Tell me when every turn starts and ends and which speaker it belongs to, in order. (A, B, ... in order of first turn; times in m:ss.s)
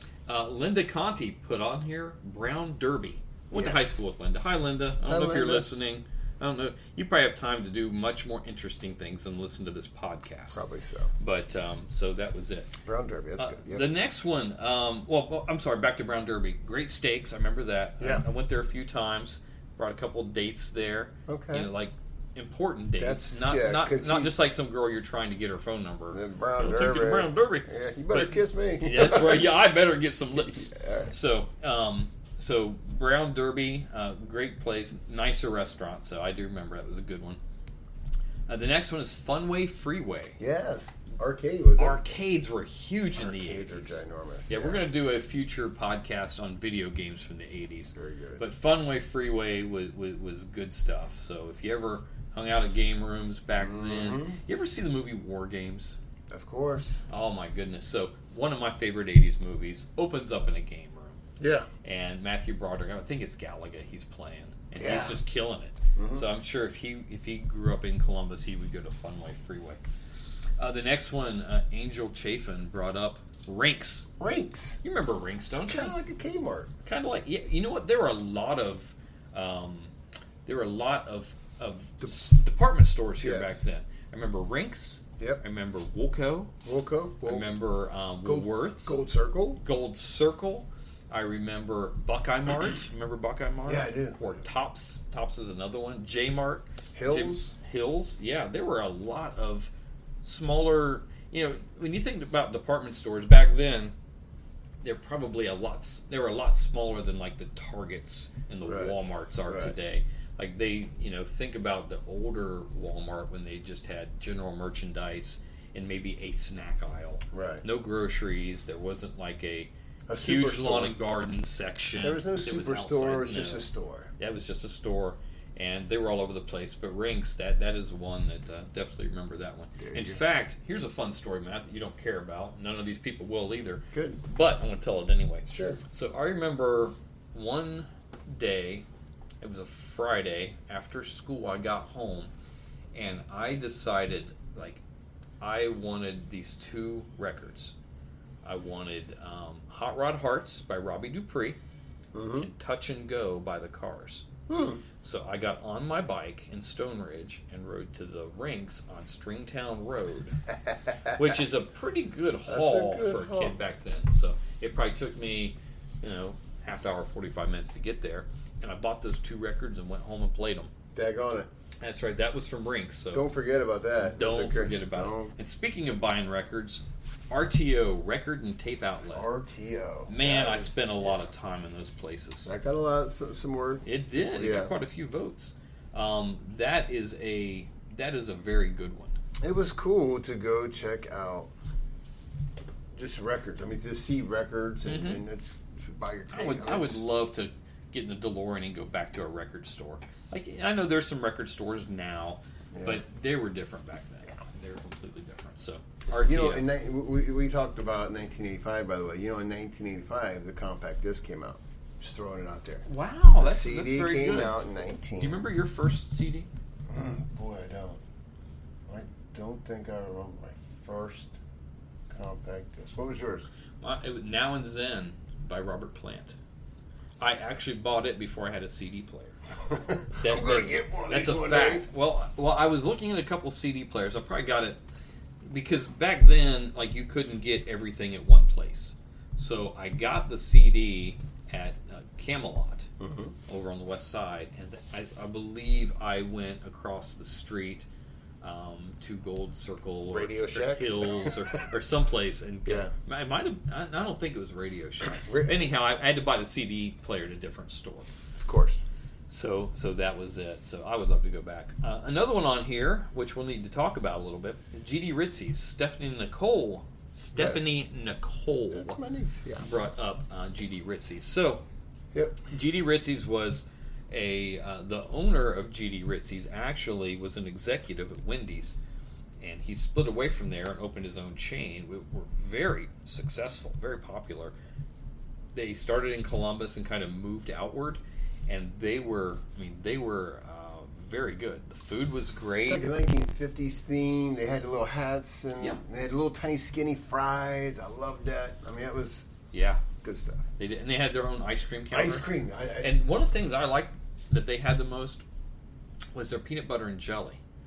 0:00.3-0:10.6 A
0:03.5-0:04.0 B
0:05.0-0:05.7 B
0:10.5-0:11.1 B
0:11.2-0:12.7 A
0:12.8-0:13.9 B
0:13.4-0:37.4 A
0:18.0-0:18.2 B
0:21.3-0:21.7 B
0:23.0-0:24.4 B
0:26.1-0:29.7 B
0:30.4-0:31.1 B
0:38.5-0:40.4 A
0:40.4-0:42.0 B
0:41.8-0:56.0 A
0:43.2-0:44.9 B
0:48.0-0:48.4 B
0:53.6-0:54.4 B
0:56.3-0:57.0 B
0:57.1-1:01.2 A
1:01.4-1:01.7 B
1:01.8-1:09.8 A
1:04.8-1:05.2 B
1:06.0-1:06.3 B
1:10.6-1:14.1 A
1:14.2-1:14.8 B
1:14.8-1:16.0 A
1:15.5-1:16.7 B
1:16.8-1:19.9 A
1:20.5-1:26.5 A
1:23.2-1:23.6 B
1:26.6-1:27.5 B
1:27.2-1:29.0 A
1:28.2-1:29.6 B
1:29.6-1:39.7 A
1:33.7-1:34.4 B
1:36.9-1:37.4 B
1:40.2-1:44.0 A
1:44.8-2:18.9 A
1:48.6-1:49.8 B
1:57.3-1:57.6 B
2:00.1-2:01.0 B
2:02.0-2:04.1 B
2:09.8-2:10.2 B
2:13.9-2:14.2 B
2:15.5-2:15.8 B
2:19.4-2:22.3 A
2:22.9-2:24.8 A
2:25.4-2:27.7 A
2:28.4-2:31.6 A
2:32.1-2:32.5 B
2:32.4-2:34.3 A
2:34.5-2:34.8 B
2:35.0-2:40.4 A
2:41.1-2:50.7 A
2:42.5-2:43.6 B
2:50.9-2:51.5 B
2:51.8-2:53.3 A
2:53.1-2:55.3 B
2:54.0-2:59.3 A
2:59.1-3:01.3 B
3:00.1-3:02.5 A
3:02.4-3:04.8 B
3:03.8-3:09.2 A
3:09.4-3:11.5 B
3:12.9-3:17.0 B
3:14.8-3:15.2 A
3:16.3-3:26.7 A
3:22.7-3:23.0 B
3:26.1-3:35.4 B
3:32.9-3:34.6 A
3:35.2-3:36.5 A
3:36.9-3:38.0 B
3:38.9-3:41.4 B
3:42.1-3:43.5 B
3:43.8-3:46.4 A
3:47.2-3:49.4 A
3:49.7-3:51.9 B
3:50.2-3:54.8 A
3:55.4-4:02.9 A
4:03.0-4:03.4 B
4:03.5-4:07.9 A
4:08.4-4:18.1 A
4:10.1-4:11.6 B
4:12.7-4:12.9 B
4:15.1-4:15.7 B
4:18.4-4:18.8 B
4:19.3-4:29.0 A
4:27.4-4:27.6 B
4:28.7-4:29.7 B
4:29.6-4:31.6 A
4:32.1-4:32.4 B
4:32.5-4:38.8 A
4:39.4-4:44.5 A
4:45.5-4:52.9 A
4:52.6-4:59.3 B
4:59.5-4:59.8 A
5:00.0-5:00.5 B
5:00.6-5:02.3 A
5:01.9-5:03.0 B
5:02.8-5:05.2 A
5:06.1-5:07.4 A